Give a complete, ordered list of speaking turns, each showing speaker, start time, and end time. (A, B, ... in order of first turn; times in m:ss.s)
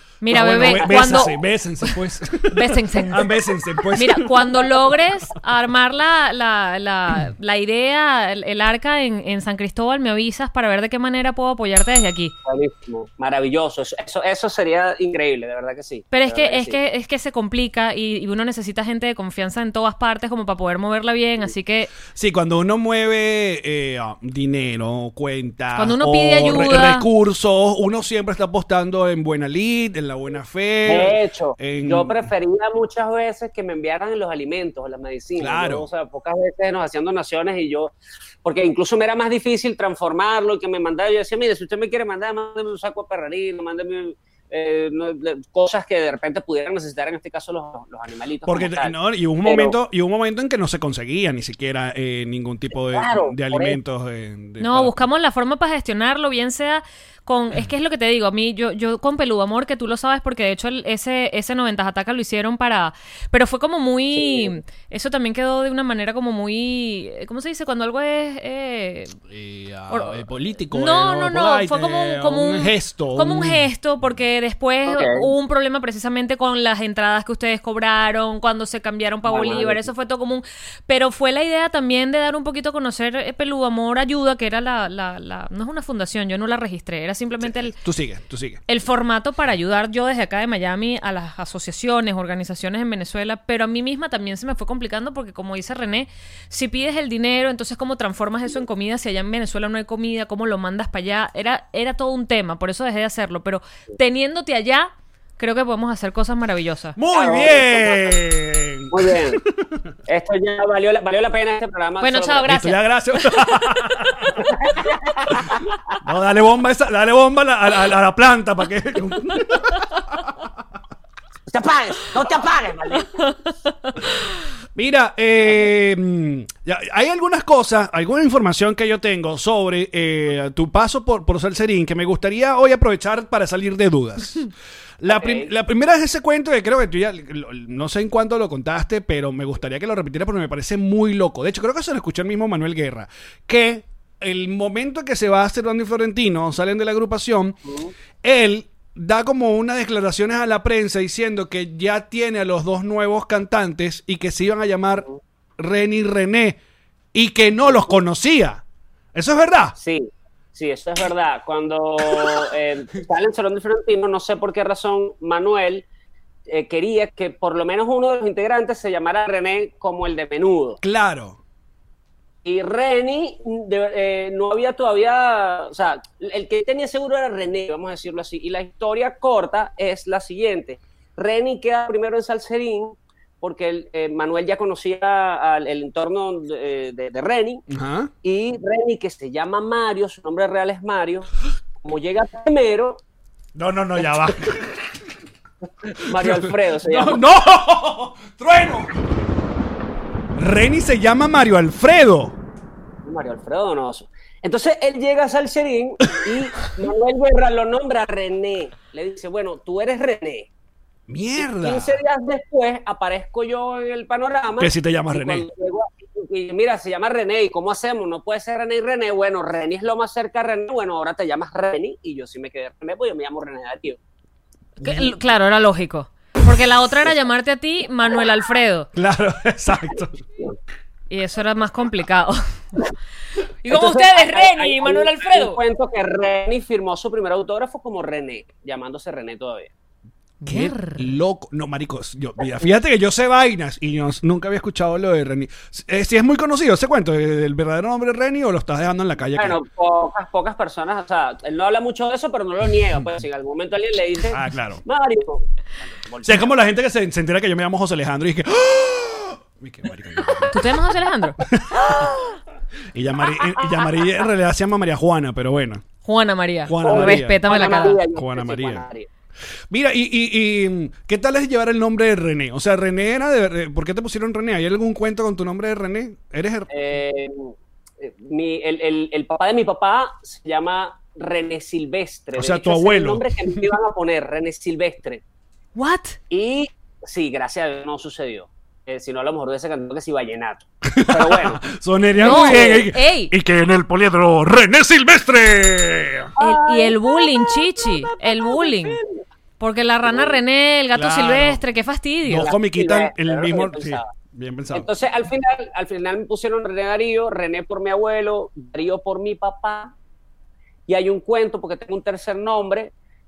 0:00.2-0:01.9 A
0:00.3-0:04.7 B
0:00.7-0:00.9 C
0:02.5-0:03.3 A
0:03.9-0:12.3 A
0:12.4-0:16.8 C
0:16.1-0:21.9 A
0:22.1-0:32.3 B
0:25.8-0:27.1 A
0:30.9-0:49.8 C
0:35.4-0:35.9 B
0:48.5-0:55.0 B
0:52.8-0:53.8 C
0:54.6-1:09.2 A
1:04.1-1:04.6 C
1:09.3-1:13.7 B
1:09.9-1:10.2 A
1:10.7-1:27.8 A
1:14.9-1:15.3 C
1:19.3-1:19.9 C
1:27.4-1:28.6 B
1:28.7-1:47.0 A
1:47.0-1:49.8 B
1:47.1-1:48.1 C
1:48.9-1:49.4 C
1:50.1-1:52.5 C
1:52.0-1:53.8 A
1:52.5-1:54.4 B
1:54.5-1:55.5 C
1:56.0-2:00.2 B
2:01.5-2:03.2 C
2:04.8-2:27.6 B
2:15.1-2:15.5 C
2:27.6-2:27.9 C
2:28.2-2:35.1 B
2:35.6-2:36.6 B
2:37.1-2:38.6 B
2:37.6-2:37.9 C
2:39.1-2:39.8 B
2:39.8-2:45.9 C
2:46.5-2:50.8 C
2:50.8-2:51.4 B
2:52.4-3:07.6 C
3:07.7-3:08.1 B
3:08.2-3:11.3 C
3:11.8-3:13.0 C
3:13.6-3:14.9 B
3:15.8-3:17.2 C
3:16.1-3:19.0 B
3:20.4-3:22.4 B
3:23.0-3:30.5 C
3:31.1-3:32.0 B
3:31.4-3:44.0 C
3:34.6-3:35.4 B
3:44.8-3:48.9 A
3:44.8-3:45.1 B
3:48.9-3:50.2 B
3:51.1-3:52.4 A
3:53.6-3:55.6 A
3:53.7-3:59.7 C
4:00.4-4:01.0 A
4:00.4-4:09.6 B
4:09.4-4:16.5 C
4:14.3-4:14.8 B
4:16.2-4:20.8 B
4:20.5-4:21.4 A
4:21.4-4:22.1 B
4:22.9-4:25.8 B
4:23.5-4:24.0 C
4:26.0-4:28.0 A
4:26.6-4:27.4 B
4:26.8-4:29.1 C
4:28.1-4:28.8 B
4:29.7-4:36.7 B
4:36.7-4:45.2 C
4:42.4-4:43.6 B
4:45.8-4:46.2 A
4:46.3-4:51.6 C
4:50.9-4:56.3 B
4:52.2-4:52.9 C
4:52.2-4:53.3 A
4:56.4-4:59.2 C
4:56.4-4:59.0 A
4:59.6-5:02.5 A
5:00.1-5:00.4 C
5:00.9-5:01.6 B
5:02.2-5:04.9 B
5:02.4-5:04.1 C
5:04.7-5:09.9 C
5:10.9-5:12.9 C